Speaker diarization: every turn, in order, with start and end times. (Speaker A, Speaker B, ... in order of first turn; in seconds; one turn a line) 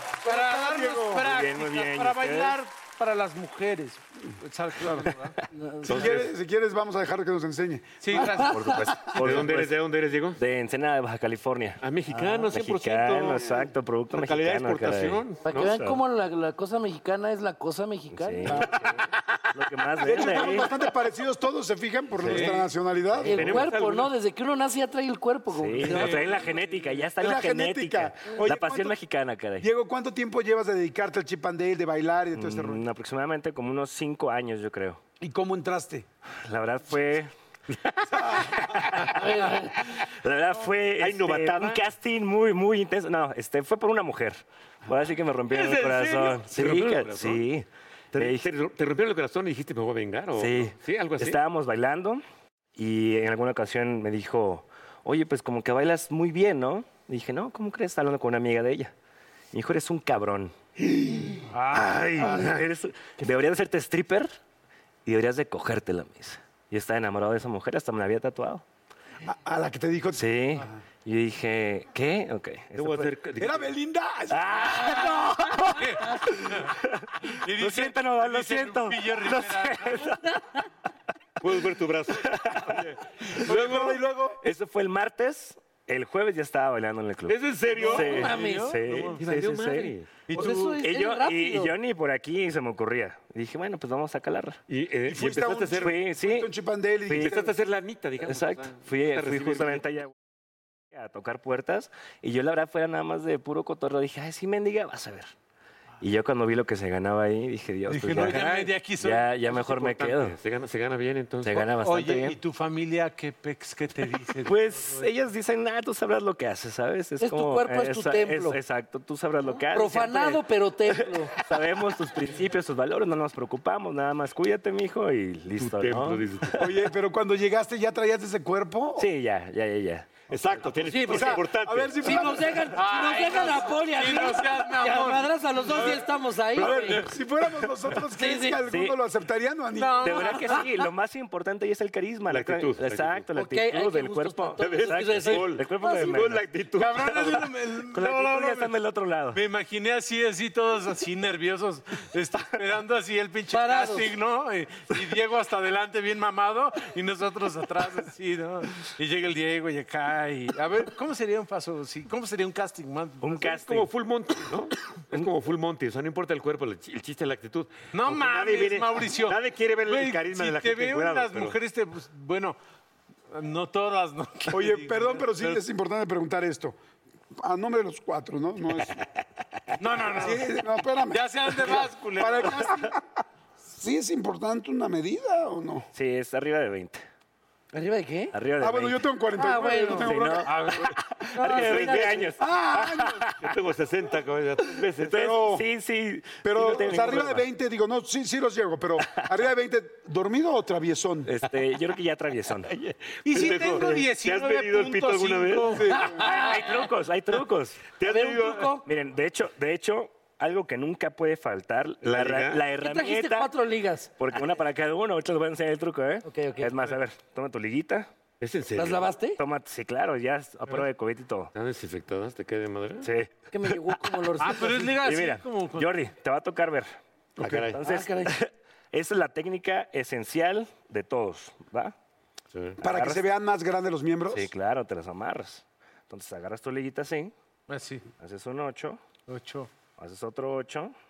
Speaker A: 0.2-5.3
Speaker B: 0.2-1.3
Speaker C: 1.2-2.6
Speaker B: 4.8-5.1
Speaker D: 5.5-5.9
Speaker B: 5.8-8.3
Speaker E: 5.8-6.3
Speaker A: 8.0-9.5
Speaker D: 8.3-8.7
Speaker C: 8.4-9.8
Speaker E: 9.1-10.4
Speaker C: 10.4-11.8
Speaker E: 11.8-15.7
Speaker D: 12.1-12.5
Speaker C: 12.5-16.0
Speaker D: 15.4-18.7
Speaker C: 18.1-18.9
Speaker B: 18.4-18.8
Speaker C: 19.5-20.7
Speaker B: 20.0-23.4
Speaker A: 22.2-22.7
Speaker D: 23.2-26.3
Speaker E: 23.2-24.1
Speaker C: 25.5-29.7
Speaker A: 25.8-26.5
Speaker B: 27.2-28.9
Speaker B: 29.6-32.8
Speaker C: 32.3-35.0
Speaker B: 35.2-36.1
Speaker C: 36.4-37.3
Speaker C: 38.9-39.3
Speaker D: 39.0-39.7
Speaker C: 40.2-48.5
Speaker E: 41.0-41.8
Speaker E: 45.5-47.4
Speaker E: 48.1-51.4
Speaker C: 50.3-52.2
Speaker C: 52.7-58.9
Speaker C: 59.5-60.5
Speaker A: 61.5-62.4
Speaker C: 61.7-64.3
Speaker B: 62.2-62.5
Speaker C: 65.0-68.6
Speaker B: 69.2-70.8
Speaker C: 70.1-73.2
Speaker E: 72.7-73.7
Speaker B: 73.4-75.6
Speaker C: 74.3-75.7
Speaker A: 75.7-76.7
Speaker C: 76.2-77.0
Speaker A: 77.3-80.1
Speaker C: 77.6-80.2
Speaker E: 81.4-84.0
Speaker C: 82.2-82.8
Speaker B: 83.4-84.4
Speaker C: 84.4-89.9
Speaker E: 87.3-90.5
Speaker D: 87.8-88.8
Speaker A: 88.1-88.7
Speaker A: 90.3-90.8
Speaker D: 90.3-91.8
Speaker C: 90.8-94.6
Speaker E: 94.7-96.0
Speaker B: 95.1-97.5
Speaker C: 95.8-96.5
Speaker C: 97.1-97.4
Speaker E: 97.1-99.8
Speaker C: 98.2-100.1
Speaker C: 100.9-105.3
Speaker C: 106.0-110.4
Speaker A: 107.9-109.9
Speaker E: 108.2-108.5
Speaker E: 109.5-111.7
Speaker C: 111.4-112.4
Speaker A: 111.7-115.1
Speaker C: 114.4-126.6
Speaker D: 117.2-118.6
Speaker D: 119.5-121.3
Speaker E: 125.6-126.7
Speaker B: 126.6-129.1
Speaker C: 129.0-130.2
Speaker E: 130.3-132.4
Speaker D: 130.8-131.3
Speaker B: 131.1-132.7
Speaker D: 132.0-137.0
Speaker A: 132.7-136.1
Speaker B: 136.5-140.4
Speaker D: 138.2-138.6
Speaker C: 138.6-139.0
Speaker A: 139.7-140.6
Speaker C: 140.1-146.5
Speaker E: 142.3-143.3
Speaker D: 143.3-146.2
Speaker E: 144.6-147.5
Speaker A: 146.8-148.8
Speaker C: 147.9-149.4
Speaker A: 149.3-163.8
Speaker D: 153.5-154.1
Speaker C: 163.2-163.9
Speaker E: 163.4-171.6
Speaker A: 167.9-172.6
Speaker A: 173.3-175.6
Speaker B: 174.5-176.8
Speaker B: 177.4-179.0
Speaker A: 179.8-180.5
Speaker B: 180.1-183.0
Speaker A: 181.1-182.7
Speaker B: 183.7-185.9
Speaker C: 185.9-187.0
Speaker D: 187.7-188.3
Speaker C: 188.3-189.1
Speaker B: 188.6-190.9
Speaker D: 189.3-190.2
Speaker C: 190.0-193.3
Speaker A: 190.4-190.9
Speaker D: 191.4-191.8
Speaker E: 191.4-192.3
Speaker B: 192.4-193.2
Speaker E: 193.4-195.4
Speaker C: 195.1-197.5
Speaker B: 195.1-195.6
Speaker B: 196.4-201.3
Speaker C: 201.3-202.7
Speaker E: 202.7-205.9
Speaker A: 203.2-206.0
Speaker B: 205.8-206.2
Speaker D: 206.0-206.9
Speaker C: 206.2-207.9
Speaker E: 208.0-208.8
Speaker D: 208.0-208.9
Speaker C: 208.8-213.5
Speaker E: 212.0-212.6
Speaker D: 212.8-214.1
Speaker C: 214.2-218.1
Speaker D: 216.2-216.8
Speaker E: 218.4-219.1
Speaker D: 218.8-219.4
Speaker C: 219.4-221.5
Speaker E: 221.5-223.1
Speaker C: 223.0-224.0
Speaker D: 223.5-224.9
Speaker A: 224.4-226.0
Speaker C: 225.0-226.9
Speaker E: 227.4-227.8
Speaker B: 227.4-227.7
Speaker C: 227.8-231.9
Speaker D: 227.8-228.3
Speaker E: 232.5-232.8
Speaker B: 232.8-234.5
Speaker C: 232.8-233.2
Speaker C: 234.3-237.3
Speaker A: 237.7-238.1
Speaker C: 238.2-239.0
Speaker A: 239.3-239.7
Speaker C: 240.0-240.9